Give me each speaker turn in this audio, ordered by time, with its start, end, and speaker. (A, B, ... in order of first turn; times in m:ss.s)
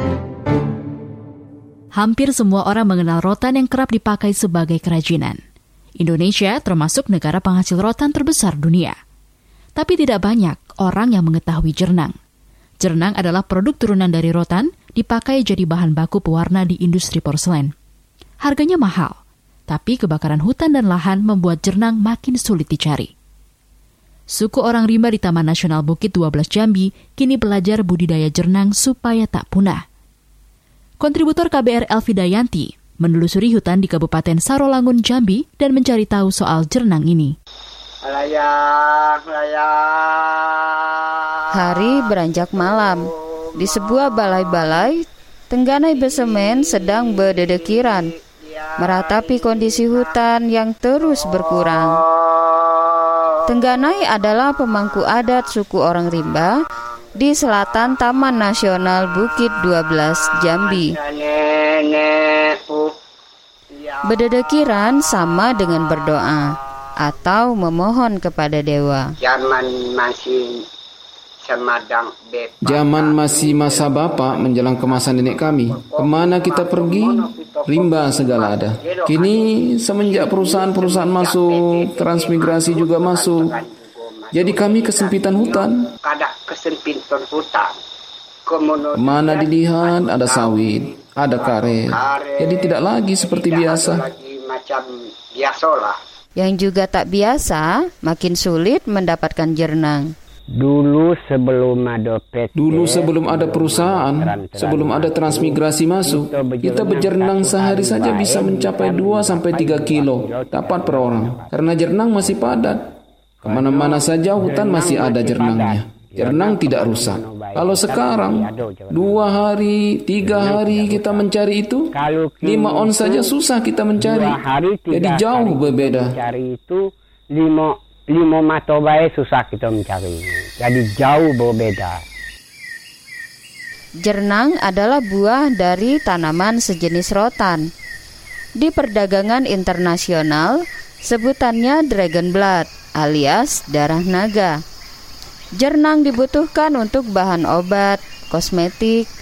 0:01.9-0:05.4 A
0:06.0-0:08.9 A
0:09.8-0:12.1 A
0:12.8-0:17.7 A
0:18.4-0:19.2 A
0:19.7-0:23.1 A
0:24.3-0:29.8 A
0:31.0-0:37.3 A
0:38.0-0:41.0 B
0:41.6-0:48.1 C
0:42.6-0:44.6 B
0:45.9-0:50.2 B
0:48.8-0:52.0 C
0:51.5-0:53.2 B
0:53.5-0:56.5 C
0:57.2-1:00.9 C
1:00.5-1:02.9 B
1:03.7-1:04.0 B
1:04.1-1:09.1 C
1:09.2-1:10.6 B
1:11.4-1:19.4 B
1:12.6-1:23.5 D
1:20.0-1:27.7 B
1:24.3-1:25.8 D
1:28.4-1:30.6 B
1:28.9-1:34.0 D
1:31.4-1:36.0 B
1:36.4-1:40.0 C
1:40.6-1:51.6 E
1:42.6-1:52.9 D
1:53.4-1:59.4 E
1:53.4-2:06.2 D
2:00.2-2:01.3 E
2:01.9-2:03.4 E
2:04.0-2:12.0 E
2:14.0-2:17.6 C
2:18.6-2:24.5 C
2:25.6-2:29.1 C